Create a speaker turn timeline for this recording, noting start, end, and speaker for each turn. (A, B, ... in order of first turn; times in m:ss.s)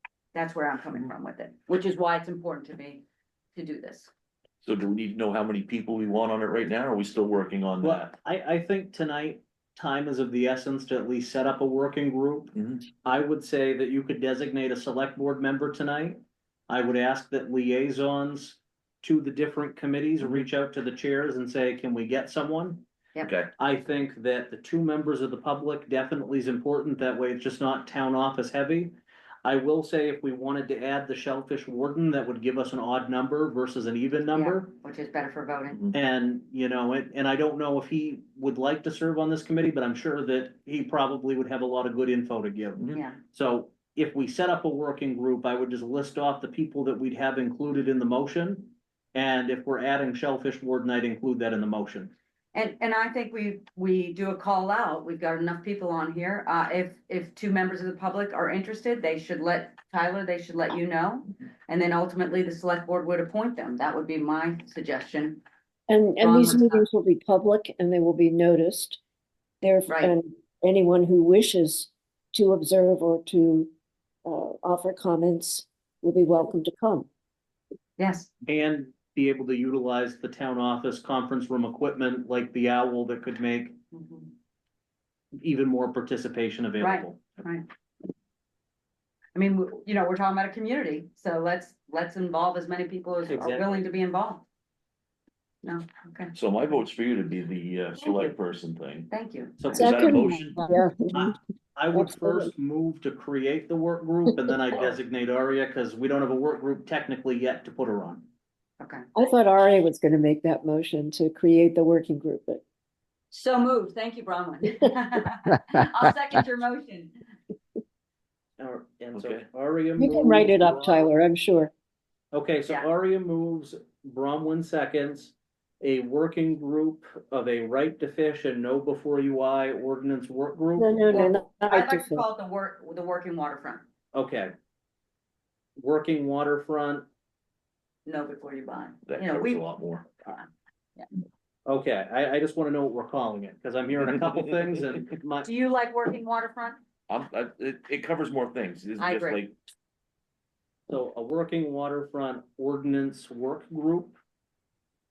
0:00.3-0:04.1 A
0:04.6-0:08.1 B
0:07.8-0:12.5 C
0:12.5-0:12.8 B
0:13.0-0:16.2 C
0:16.7-0:22.8 C
0:23.2-0:23.5 B
0:23.6-0:28.9 C
0:29.4-0:34.7 C
0:34.3-0:35.8 A
0:35.9-0:52.1 C
0:52.5-1:05.4 A
1:05.9-1:09.0 D
1:06.2-1:06.8 A
1:09.6-1:13.7 D
1:09.9-1:10.1 A
1:14.2-1:17.1 D
1:18.0-1:18.3 A
1:18.5-1:23.8 C
1:23.9-1:24.3 A
1:25.4-1:27.4 C
1:26.8-1:27.7 A
1:29.3-1:34.4 A
1:33.3-1:33.8 C
1:35.6-1:36.3 A
1:36.3-1:39.1 B
1:38.0-1:38.3 A
1:39.1-1:39.6 A
1:39.6-1:40.0 C
1:39.7-1:40.7 B
1:39.7-1:41.3 D
1:41.1-1:48.3 C
1:41.9-1:42.5 D
1:48.8-1:49.1 A
1:49.1-1:52.6 D
1:53.3-1:57.1 A
1:58.6-2:01.1 C
1:59.1-1:59.4 B
2:00.0-2:01.7 D
2:02.3-2:11.3 C
2:10.8-2:12.2 D
2:11.1-2:13.8 A
2:14.1-2:14.5 C
2:15.8-2:17.0 C
2:18.0-2:21.1 A
2:19.0-2:20.0 B
2:21.7-2:25.5 C
2:25.4-2:26.8 A
2:27.1-2:29.5 B
2:29.0-2:29.4 A
2:30.9-2:34.2 C